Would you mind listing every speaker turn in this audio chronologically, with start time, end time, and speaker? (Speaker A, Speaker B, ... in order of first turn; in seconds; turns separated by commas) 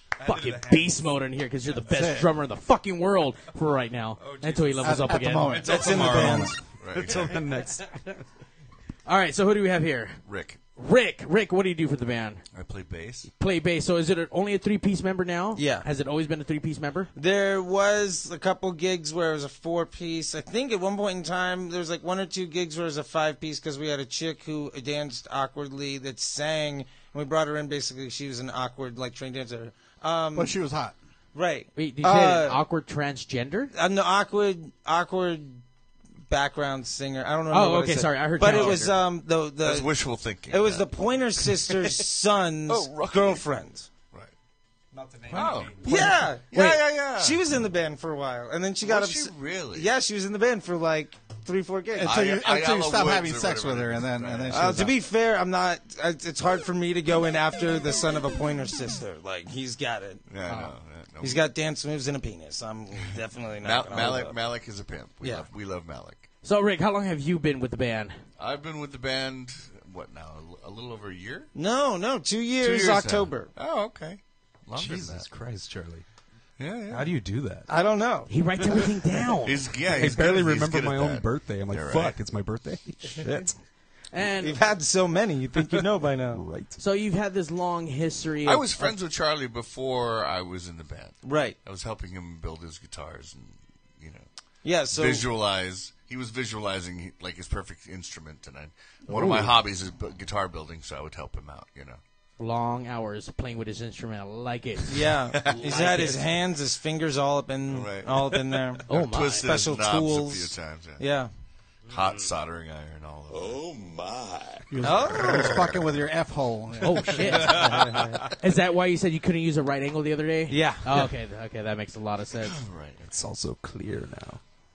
Speaker A: 0.2-1.0, Speaker B: 0.2-5.6, Speaker C: 1.9-2.3, Speaker A: 4.2-8.0, Speaker C: 4.8-6.5, Speaker D: 5.6-6.6, Speaker E: 6.8-7.5, Speaker B: 9.1-10.2, Speaker E: 10.2-10.6, Speaker B: 10.7-12.4, Speaker E: 12.5-13.3, Speaker B: 13.3-17.1, Speaker D: 15.5-15.8, Speaker D: 17.1-30.5, Speaker C: 30.3-30.9, Speaker D: 31.3-32.6, Speaker B: 31.8-33.7, Speaker D: 33.7-35.6, Speaker D: 36.3-39.9, Speaker B: 37.5-39.0, Speaker E: 39.6-41.9, Speaker D: 40.5-43.9, Speaker E: 42.7-43.4, Speaker A: 44.9-46.1, Speaker E: 45.3-45.9, Speaker D: 45.8-52.2, Speaker E: 46.4-47.4, Speaker E: 48.8-49.9, Speaker C: 51.9-55.0, Speaker E: 52.0-54.9, Speaker D: 54.5-60.3, Speaker E: 60.3-61.4, Speaker D: 61.2-64.4, Speaker E: 63.6-66.2, Speaker D: 65.2-65.5, Speaker B: 66.4-68.2, Speaker E: 68.4-71.5, Speaker D: 71.5-73.5, Speaker E: 72.6-75.3, Speaker A: 74.7-76.0, Speaker E: 76.6-77.2, Speaker A: 76.9-77.7, Speaker D: 77.7-78.3, Speaker B: 78.3-80.3, Speaker E: 79.4-82.2, Speaker A: 79.9-83.5, Speaker B: 84.1-84.6, Speaker D: 84.4-86.4, Speaker A: 85.7-86.8, Speaker B: 86.8-88.9, Speaker E: 88.4-94.3, Speaker D: 91.2-91.6, Speaker D: 94.6-95.3, Speaker E: 94.9-102.0, Speaker C: 99.1-99.5, Speaker B: 102.4-106.3, Speaker D: 104.9-108.9, Speaker E: 105.3-105.8, Speaker E: 107.7-111.0, Speaker B: 108.9-109.5, Speaker D: 109.4-111.3, Speaker E: 111.9-114.7, Speaker C: 114.7-117.8, Speaker D: 114.8-115.7, Speaker E: 115.2-115.8, Speaker B: 116.8-117.7, Speaker A: 117.6-118.0, Speaker D: 117.6-118.2, Speaker B: 118.3-122.6, Speaker D: 120.5-121.1, Speaker E: 122.4-123.1, Speaker A: 123.0-124.4